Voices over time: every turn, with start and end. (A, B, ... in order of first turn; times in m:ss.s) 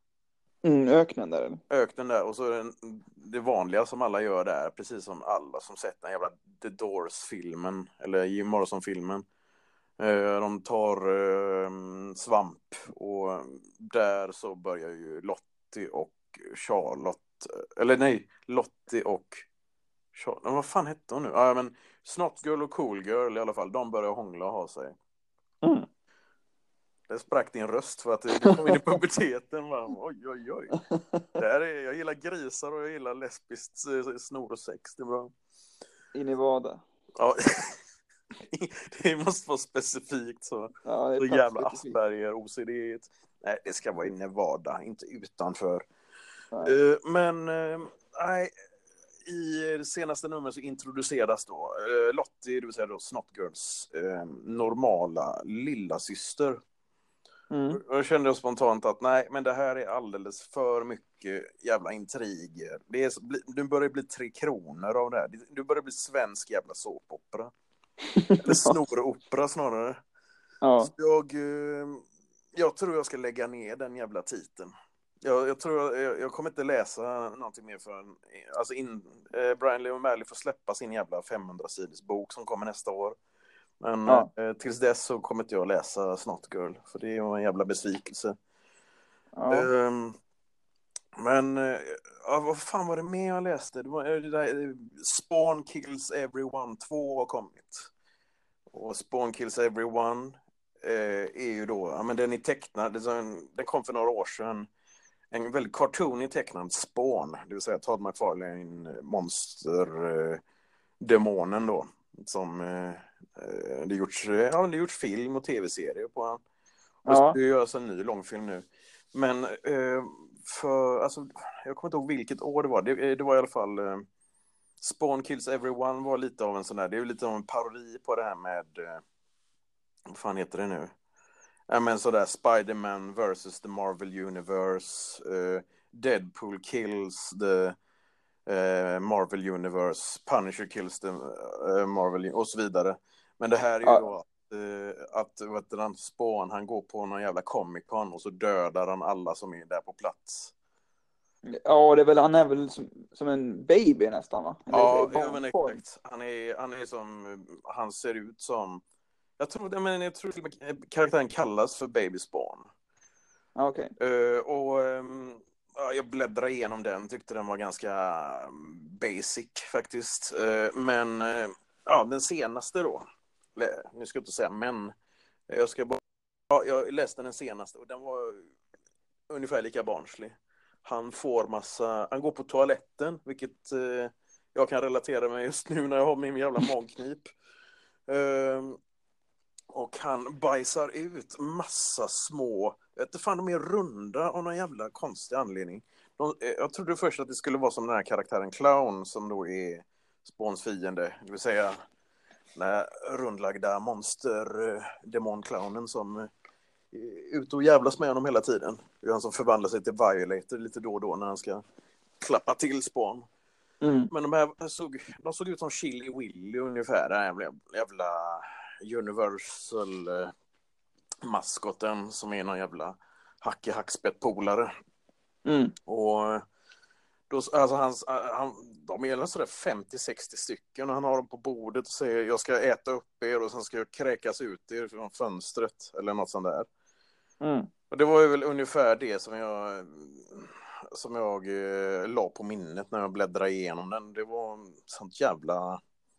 0:00.6-0:01.6 A
0:01.7-0:09.2 B
0:10.0-0:19.4 B
0:20.1-0:25.0 B
0:25.6-0:25.9 A
0:27.1-0:30.8 B
0:30.9-0:31.4 A
0:31.4-0:35.3 B
0:36.1-0:36.8 A
0:37.2-0:37.8 B
0:38.5-0:45.8 B
0:40.8-0:42.0 A
0:46.6-0:48.5 B
0:49.2-0:56.6 B
0:57.5-0:57.8 A
0:57.7-1:07.5 B
1:08.1-1:08.7 A
1:08.4-1:10.0 B
1:10.6-1:10.9 A
1:10.8-1:12.0 B
1:12.5-1:14.7 B
1:15.2-1:23.2 B
1:23.8-1:28.4 B
1:29.3-1:29.7 A
1:29.5-1:30.2 B
1:31.2-1:37.9 B
1:38.7-1:44.7 B
1:45.3-1:50.4 B
1:51.0-1:56.4 B
1:57.0-2:04.0 B
1:57.0-1:57.4 A
2:04.8-2:09.0 B
2:10.1-2:10.9 B
2:11.7-2:17.8 B
2:18.5-2:30.5 B
2:31.4-2:35.8 A
2:34.7-2:38.8 B
2:39.4-2:42.7 B
2:43.6-2:43.9 A
2:44.0-2:54.9 B
2:55.5-2:58.5 B
2:59.3-3:00.3 B
3:00.8-3:07.3 B
3:08.1-3:08.8 B
3:09.7-3:21.8 B
3:22.6-3:26.3 B
3:26.9-3:31.6 B
3:32.2-3:33.2 B
3:33.8-3:34.1 A
3:34.1-3:40.3 B
3:41.2-3:44.7 B
3:45.4-3:45.7 A
3:45.8-3:46.4 B
3:47.3-3:56.7 B
3:57.4-3:57.7 A
3:57.9-4:05.8 B